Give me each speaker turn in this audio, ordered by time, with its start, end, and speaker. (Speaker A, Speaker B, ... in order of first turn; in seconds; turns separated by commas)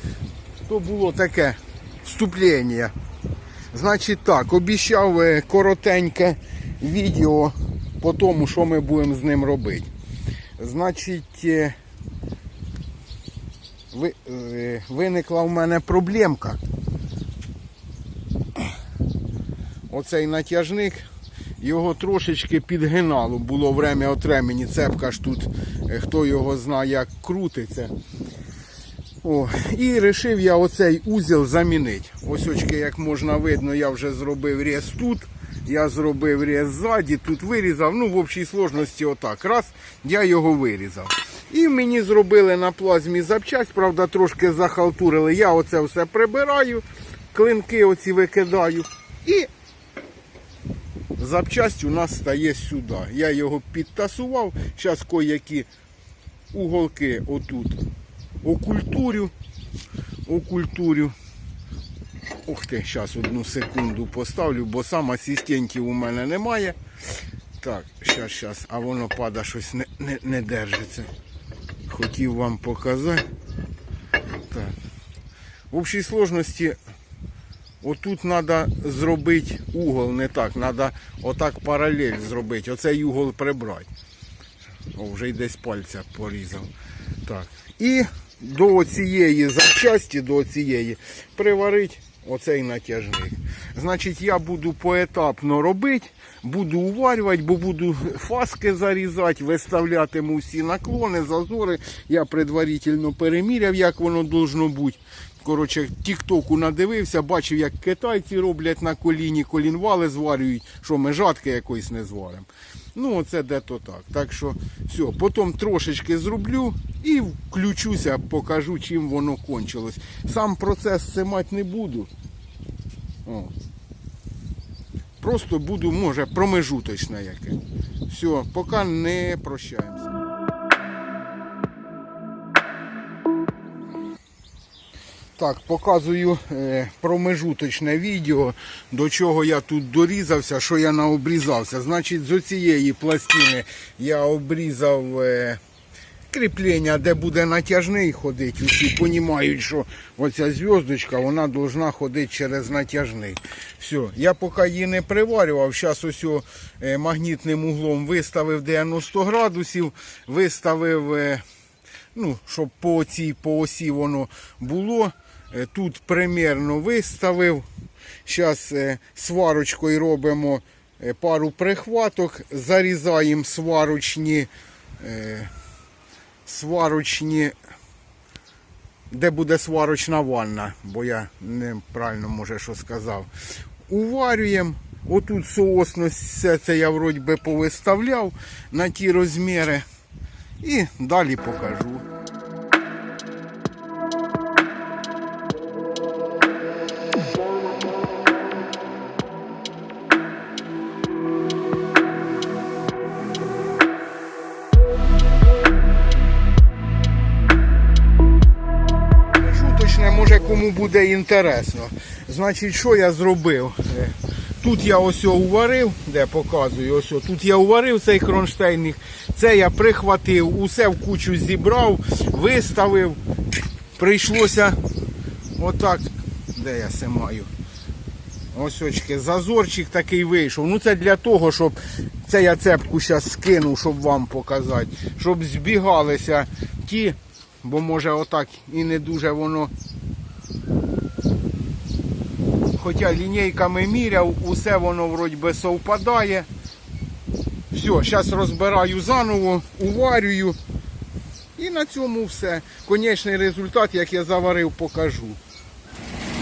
Speaker A: 0.7-2.9, Speaker A: 3.7-9.9, Speaker A: 10.6-11.8, Speaker A: 13.9-16.6, Speaker A: 19.9-21.0, Speaker A: 21.6-27.9, Speaker A: 29.2-49.5, Speaker A: 51.2-55.7, Speaker A: 56.5-57.8, Speaker A: 58.4-59.3, Speaker A: 60.2-61.1, Speaker A: 62.5-66.8, Speaker A: 67.6-71.1, Speaker A: 71.9-73.2, Speaker A: 74.5-74.7, Speaker A: 75.7-76.8, Speaker A: 77.8-83.9, Speaker A: 84.9-86.7, Speaker A: 87.2-122.1, Speaker A: 123.2-123.5, Speaker A: 125.2-130.1, Speaker A: 135.4-145.6, Speaker A: 146.3-161.4, Speaker A: 162.1-167.7, Speaker A: 168.2-175.5, Speaker A: 176.4-177.5, Speaker A: 179.1-183.3, Speaker A: 183.9-189.8, Speaker A: 190.6-192.0, Speaker A: 209.3-223.2, Speaker A: 223.9-224.8, Speaker A: 225.6-227.5, Speaker A: 228.5-239.7, Speaker A: 242.7-246.5, Speaker A: 247.7-250.6, Speaker A: 251.6-255.4